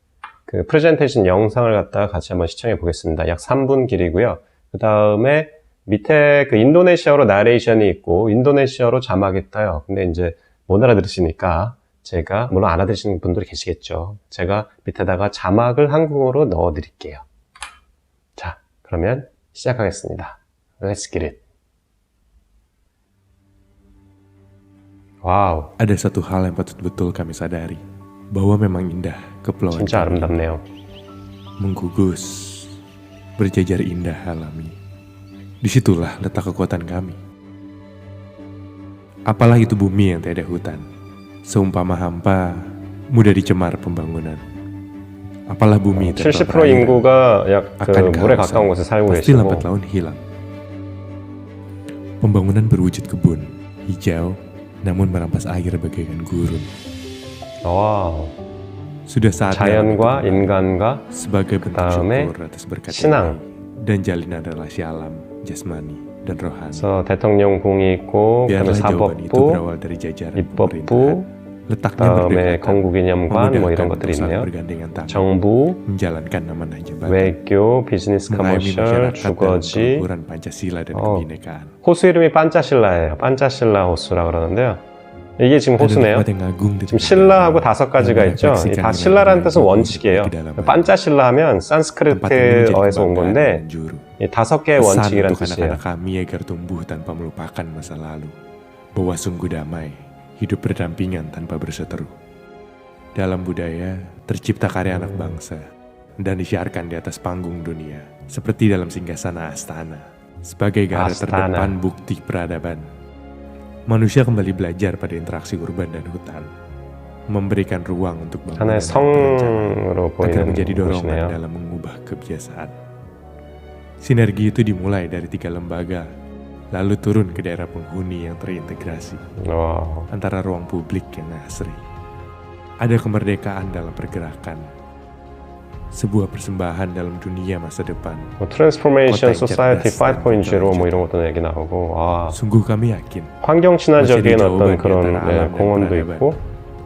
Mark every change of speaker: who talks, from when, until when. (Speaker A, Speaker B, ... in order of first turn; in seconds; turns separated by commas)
Speaker A: 0.5-17.2, Speaker A: 18.4-21.4, Speaker A: 25.2-25.7, Speaker B: 25.8-27.8, Speaker B: 28.3-30.3, Speaker A: 29.7-30.6, Speaker B: 31.6-32.7, Speaker B: 33.4-34.7, Speaker B: 35.6-37.2, Speaker B: 39.3-40.8, Speaker B: 41.5-44.4, Speaker B: 45.5-47.0, Speaker A: 46.0-49.7, Speaker B: 47.8-50.2, Speaker B: 52.2-56.7, Speaker A: 57.6-58.3, Speaker B: 59.1-60.5, Speaker A: 59.5-61.0, Speaker B: 61.1-66.8, Speaker A: 61.6-62.3, Speaker A: 62.9-63.4, Speaker A: 66.7-69.6, Speaker B: 68.5-75.2, Speaker A: 70.4-71.3, Speaker A: 72.0-74.5, Speaker A: 75.1-75.8, Speaker B: 75.8-77.4, Speaker A: 77.0-80.0, Speaker B: 78.3-81.7, Speaker A: 80.9-81.2, Speaker A: 81.8-84.8, Speaker A: 85.4-86.2, Speaker B: 85.8-90.9, Speaker A: 86.9-93.6, Speaker B: 92.1-94.0, Speaker A: 94.2-95.8, Speaker B: 94.8-98.3, Speaker B: 98.9-102.1, Speaker B: 103.2-105.6, Speaker B: 106.2-112.8, Speaker A: 110.9-111.8, Speaker B: 113.9-116.5, Speaker B: 117.3-119.7, Speaker A: 118.6-121.4, Speaker B: 120.2-122.7, Speaker B: 124.0-126.0, Speaker B: 126.7-129.2, Speaker A: 129.4-130.1, Speaker B: 130.1-131.8, Speaker B: 132.8-134.6, Speaker B: 135.9-138.3, Speaker A: 138.4-142.4, Speaker B: 139.1-141.1, Speaker B: 142.3-143.3, Speaker A: 143.4-146.4, Speaker B: 144.0-146.3